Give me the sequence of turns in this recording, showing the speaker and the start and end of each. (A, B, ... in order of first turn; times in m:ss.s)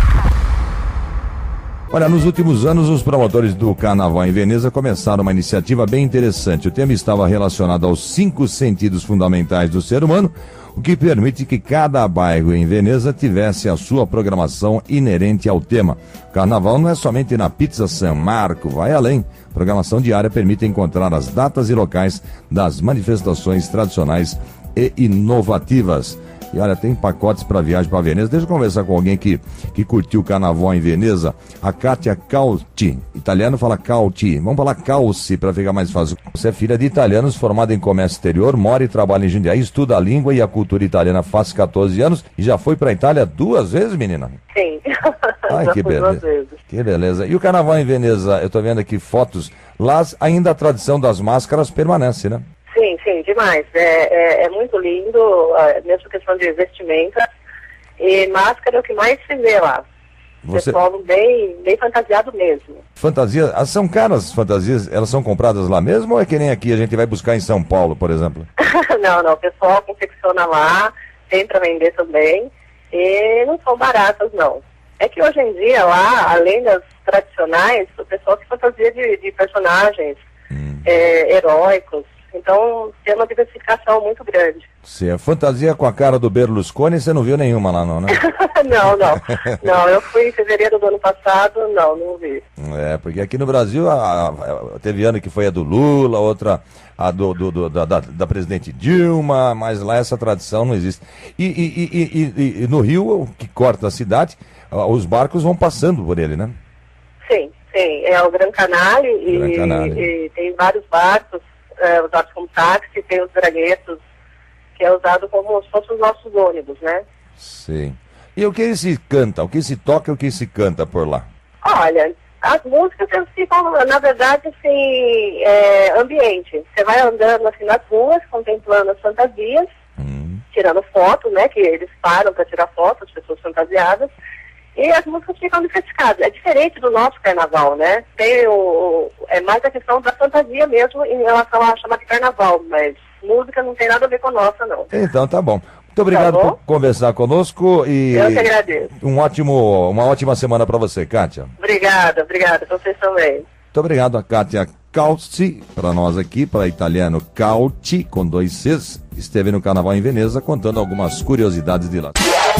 0:01.9-0:44.4 A
0:44.5-0:46.6 B
0:45.5-0:52.4 A
0:52.7-0:57.3 B
0:58.0-0:59.8 B
1:00.4-1:00.8 A
1:00.5-1:02.8 B
1:03.0-1:08.5 A
1:08.6-1:20.2 B
1:20.5-1:20.8 A
1:20.8-1:24.7 B
1:24.8-1:28.2 A
1:28.1-1:32.4 B
1:32.6-1:46.5 A
1:47.2-1:54.0 B
1:49.3-1:50.1 A
1:54.8-1:57.0 B
1:57.4-2:01.2 A
2:01.6-2:09.7 B
2:10.0-2:10.4 A
2:10.5-2:14.1 B
2:14.8-2:24.9 B
2:24.9-2:31.5 A
2:26.1-2:26.6 B
2:28.1-2:28.9 B
2:31.6-2:33.5 B
2:33.7-2:42.2 A